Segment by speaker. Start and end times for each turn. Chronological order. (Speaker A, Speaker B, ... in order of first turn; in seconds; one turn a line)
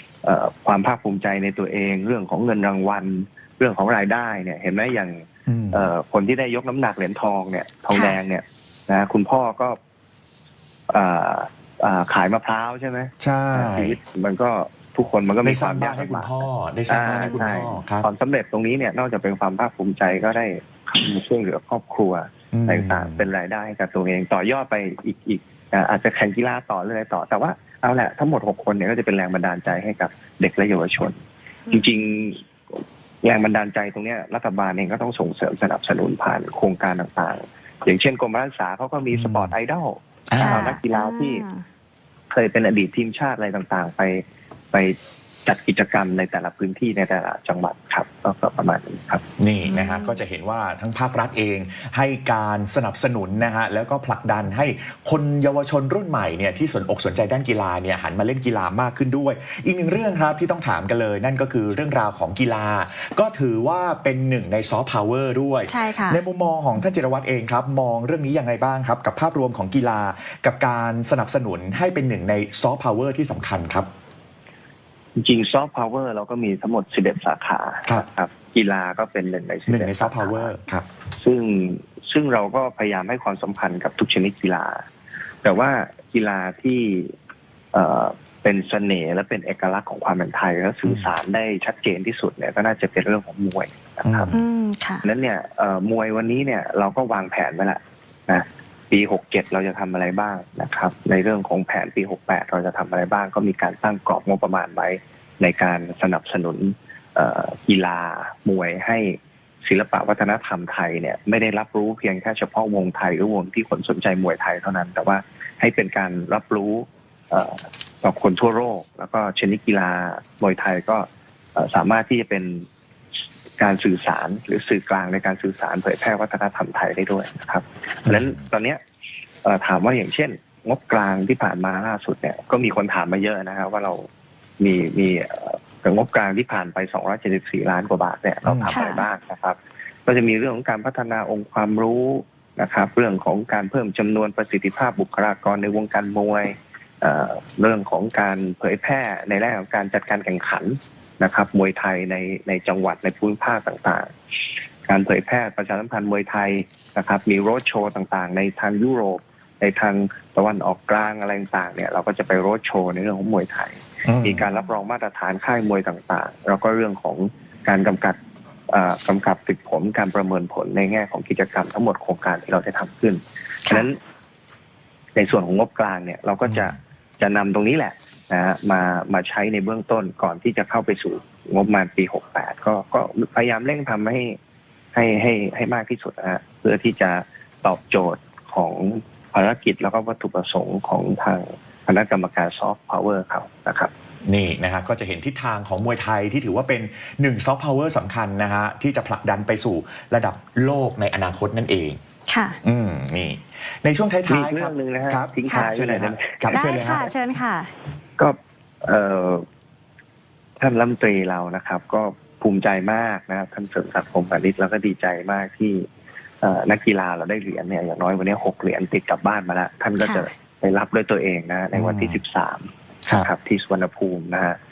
Speaker A: 0.2-9.8
Speaker B: 5.5-5.9
Speaker C: 7.9-8.2
Speaker A: 10.9-41.4
Speaker B: 13.2-14.0
Speaker B: 15.4-18.1
Speaker B: 22.5-23.3
Speaker B: 39.1-39.5
Speaker B: 40.3-40.7
Speaker C: 40.4-41.6
Speaker A: 42.3-44.9
Speaker A: 45.5-49.2
Speaker B: 49.4-73.9
Speaker C: 49.6-50.2
Speaker C: 65.7-66.2
Speaker A: 75.2-80.5
Speaker B: 79.7-80.9
Speaker A: 81.1-84.8
Speaker A: 85.4-87.1
Speaker A: 87.7-94.3
Speaker B: 94.0-94.4
Speaker C: 94.3-95.0
Speaker A: 95.0-122.7
Speaker A: 123.6-128.8
Speaker B: 128.1-128.4
Speaker A: 129.4-134.1
Speaker A: 134.6-154.1
Speaker B: 138.4-138.8
Speaker C: 138.7-139.1
Speaker A: 154.9-168.2
Speaker B: 164.0-164.5
Speaker A: 168.7-174.0
Speaker A: 175.2-184.4
Speaker A: 184.9-193.9
Speaker B: 194.3-202.0
Speaker C: 202.3-202.6
Speaker B: 202.6-207.1
Speaker A: 204.3-207.0
Speaker C: 205.5-205.7
Speaker C: 206.5-207.7
Speaker A: 208.2-209.4
Speaker A: 210.6-215.9
Speaker A: 216.4-224.6
Speaker C: 220.0-220.3
Speaker B: 221.8-222.2